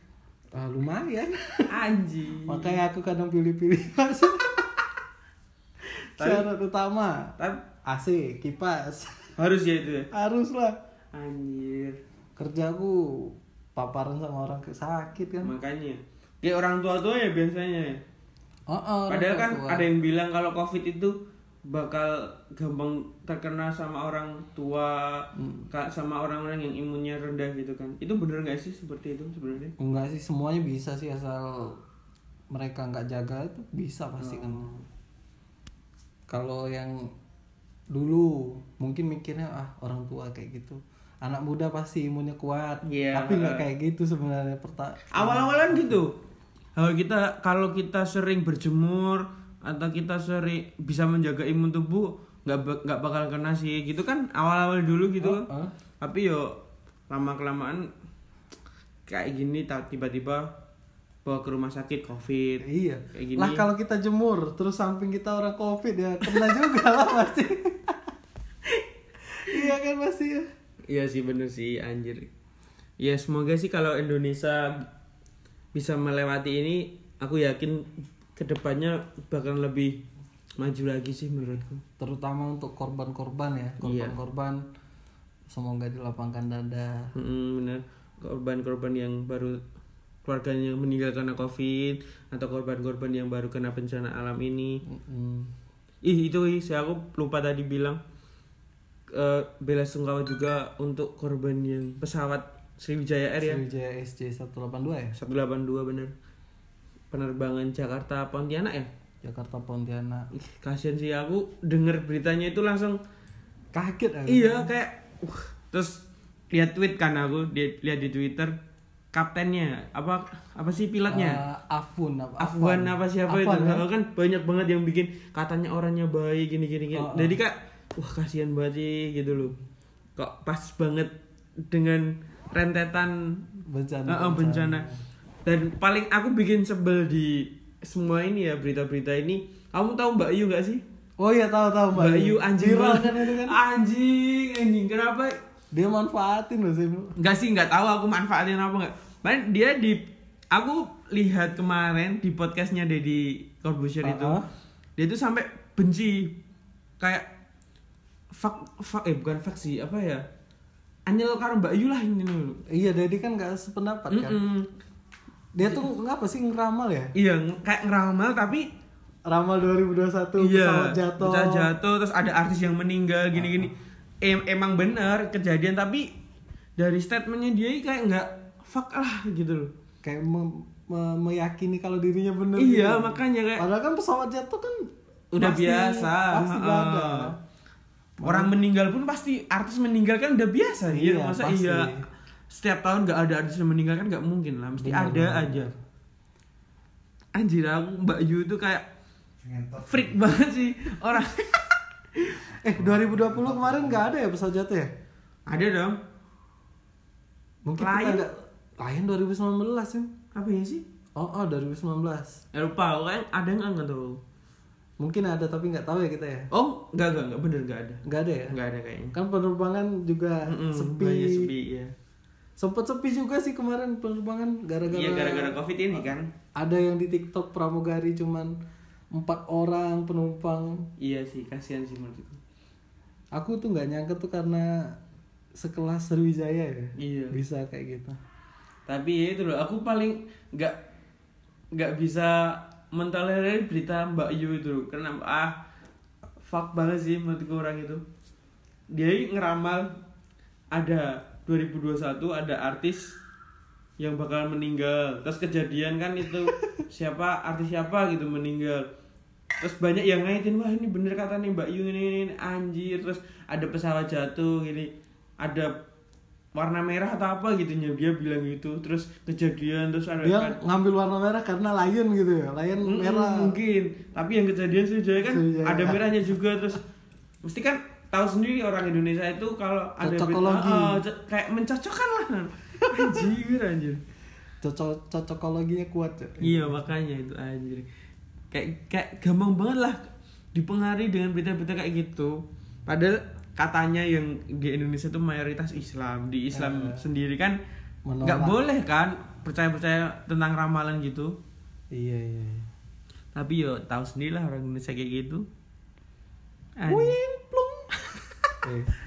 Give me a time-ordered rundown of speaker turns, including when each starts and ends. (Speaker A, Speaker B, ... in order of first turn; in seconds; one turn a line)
Speaker A: 0.6-1.7
Speaker B: 1.7-2.8
Speaker A: 2.5-4.7
Speaker B: 6.2-6.5
Speaker A: 6.2-7.3
Speaker B: 7.4-7.6
Speaker A: 7.9-9.3
Speaker B: 9.4-10.1
Speaker A: 10.1-10.8
Speaker B: 11.1-12.0
Speaker A: 12.4-15.5
Speaker B: 15.4-18.0
Speaker A: 18.7-19.8
Speaker B: 19.1-29.7
Speaker A: 25.4-25.7
Speaker A: 29.8-31.8
Speaker A: 32.5-34.7
Speaker B: 34.2-34.8
Speaker A: 36.3-37.1
Speaker A: 37.9-46.0
Speaker B: 42.8-43.7
Speaker B: 45.1-46.1
Speaker B: 46.8-55.5
Speaker A: 55.2-55.7
Speaker B: 56.0-56.5
Speaker B: 57.1-57.9
Speaker B: 59.1-60.5
Speaker B: 61.2-63.6
Speaker A: 62.6-68.0
Speaker B: 66.2-66.5
Speaker A: 69.4-70.5
Speaker B: 70.9-72.3
Speaker B: 73.0-74.9
Speaker B: 75.7-80.0
Speaker B: 80.6-81.8
Speaker A: 82.0-84.6
Speaker B: 83.8-84.2
Speaker A: 85.5-87.1
Speaker B: 87.1-89.6
Speaker B: 90.2-94.8
Speaker A: 94.9-95.5
Speaker B: 96.0-98.0
Speaker B: 99.1-103.6
Speaker A: 103.4-105.2
Speaker B: 105.2-106.1
Speaker B: 107.1-108.9
Speaker A: 109.2-110.3
Speaker B: 110.3-113.0
Speaker A: 113.7-114.7
Speaker B: 114.3-118.6
Speaker B: 119.1-121.4
Speaker A: 121.1-123.8
Speaker B: 122.4-129.5
Speaker A: 126.9-127.4
Speaker B: 130.2-131.1
Speaker B: 131.7-133.5
Speaker A: 133.7-135.0
Speaker B: 134.1-134.9
Speaker B: 135.4-140.8
Speaker A: 141.2-143.6
Speaker B: 141.9-145.4
Speaker A: 145.7-147.1
Speaker B: 147.2-154.4
Speaker A: 154.0-154.4
Speaker B: 155.0-156.4
Speaker B: 157.0-157.3
Speaker B: 158.3-160.2
Speaker B: 161.1-162.6
Speaker A: 162.7-164.4
Speaker B: 164.1-164.7
Speaker A: 165.6-167.1
Speaker B: 167.1-168.7
Speaker A: 169.3-171.7
Speaker B: 170.4-176.1
Speaker A: 173.4-173.7
Speaker B: 176.8-179.7
Speaker A: 180.0-187.4
Speaker B: 182.6-183.6
Speaker B: 185.3-187.3
Speaker A: 188.2-188.5
Speaker B: 188.2-191.9
Speaker A: 190.9-192.1
Speaker B: 192.5-195.7
Speaker A: 194.8-195.7
Speaker B: 197.3-198.9
Speaker C: 199.4-200.3
Speaker B: 199.9-202.4
Speaker A: 202.6-204.9
Speaker C: 202.6-204.1
Speaker B: 205.5-206.0
Speaker A: 207.7-210.1
Speaker B: 207.8-208.3
Speaker B: 210.3-210.8
Speaker A: 211.2-212.4
Speaker B: 212.5-214.2
Speaker A: 215.0-216.5
Speaker B: 216.5-219.1
Speaker A: 218.1-218.6
Speaker A: 219.1-221.5
Speaker B: 220.4-221.9
Speaker A: 222.6-225.6
Speaker B: 224.9-226.3
Speaker A: 226.6-228.6
Speaker A: 229.1-230.9
Speaker B: 231.0-232.4
Speaker A: 233.3-234.9
Speaker A: 235.6-238.2
Speaker B: 237.0-237.4
Speaker B: 238.9-240.8
Speaker B: 241.7-245.6
Speaker B: 246.4-248.0
Speaker B: 248.9-249.9
Speaker B: 250.7-253.2
Speaker B: 254.0-258.8
Speaker B: 259.6-265.7
Speaker B: 266.5-270.6
Speaker A: 270.2-273.5
Speaker B: 272.8-276.8
Speaker A: 275.3-276.0
Speaker B: 277.4-284.0
Speaker A: 280.0-281.0
Speaker A: 284.6-286.8
Speaker B: 286.4-287.9
Speaker B: 288.5-290.0
Speaker B: 290.5-297.6
Speaker A: 296.5-297.0
Speaker A: 298.1-298.6
Speaker B: 298.2-301.4
Speaker A: 301.9-302.7
Speaker B: 303.3-305.5
Speaker B: 306.8-307.2
Speaker A: 306.9-307.8
Speaker A: 308.6-308.9